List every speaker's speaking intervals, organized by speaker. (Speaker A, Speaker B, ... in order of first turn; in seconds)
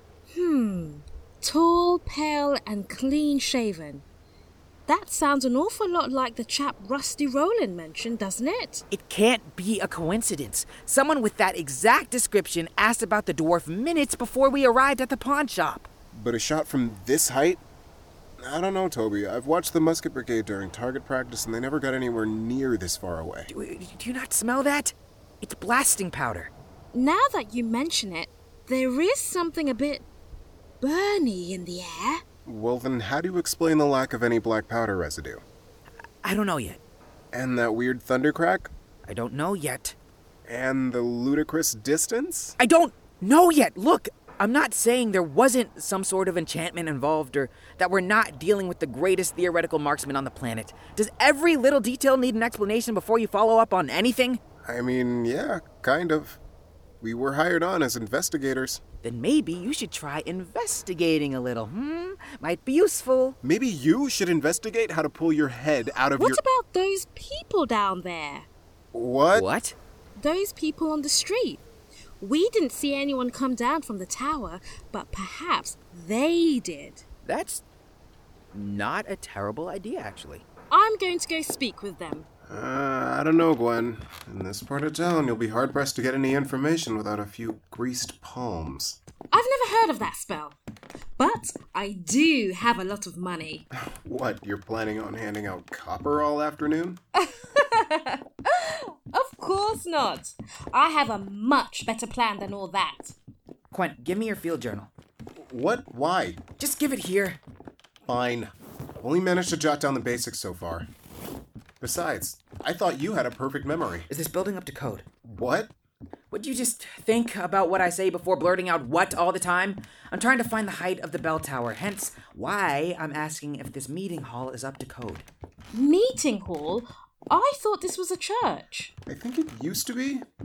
Speaker A: 0.3-4.0, 4.9-8.8, 26.9-30.1, 30.8-32.2, 66.2-68.5, 70.2-71.6, 72.2-77.0, 80.7-82.3, 89.3-90.6, 91.2-93.7, 97.2-103.2, 125.7-128.9
Speaker B: 8.9-15.9, 23.5-26.5, 36.2-36.8, 39.0-40.0, 42.6-54.4, 59.0-63.4, 69.3-69.8, 77.2-77.6, 78.5-80.5, 103.7-104.9, 106.6-107.4, 114.1-115.1, 116.3-125.3
Speaker C: 16.1-17.6, 18.4-23.5, 32.5-35.4, 37.3-38.7, 40.5-42.6, 54.6-56.4, 57.0-58.8, 63.4-66.4, 68.9-69.5, 82.5-89.0, 93.8-97.0, 105.4-106.5, 108.1-110.9, 111.8-114.1, 115.2-115.7, 129.1-130.2